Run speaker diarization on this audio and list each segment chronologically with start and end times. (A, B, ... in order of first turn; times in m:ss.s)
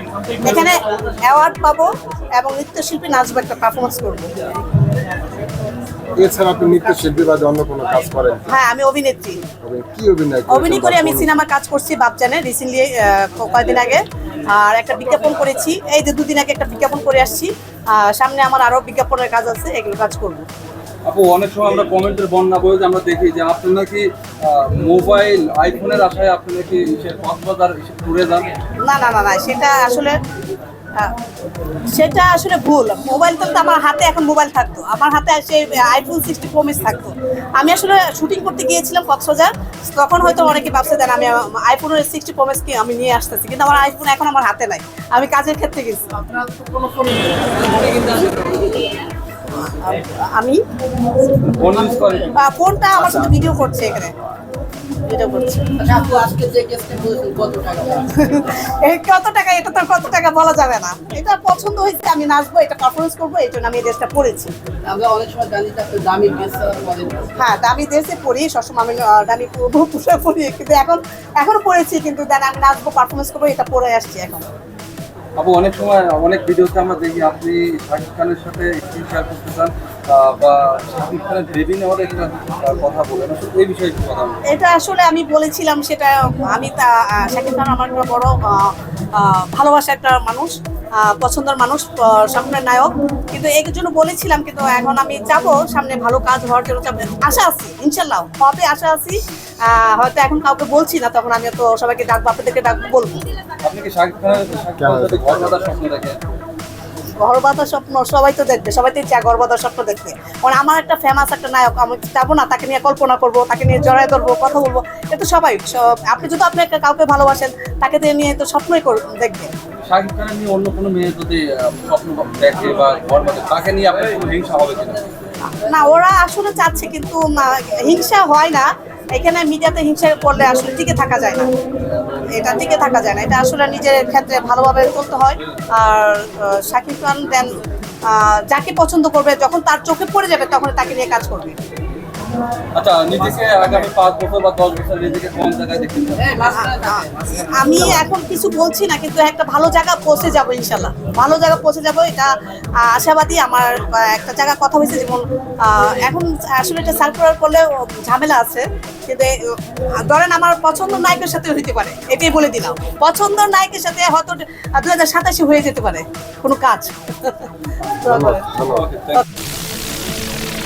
0:00.4-0:04.3 A
0:06.2-0:08.5 B
0:08.5-0:09.4 A
0:09.6-0:11.3 B
0:10.5-0:20.5 A
0:21.1-0:28.6 C
0:28.9-0:30.2 A
0:31.9-0:46.2 A
0:46.2-0:48.9 D
0:49.6-0:50.6 A
0:51.5-0:52.3 C
0:52.4-0:54.1 A
0:55.0-0:55.7 A
0:55.8-0:58.3 D
0:58.2-1:04.5 A
1:04.9-1:07.4 D
1:07.4-1:14.5 A
1:15.4-1:24.4 C
1:24.5-1:43.3 A
1:43.6-1:46.2 C
1:44.8-1:45.6 B
1:47.2-1:59.5 A
1:59.8-2:05.1 C
2:05.4-2:11.5 A
2:12.3-2:21.6 A
2:22.8-2:26.4 C
2:26.2-2:28.0 D
2:26.5-2:39.4 A
2:40.0-2:48.5 A
2:48.0-2:48.9 B
2:48.6-2:49.2 C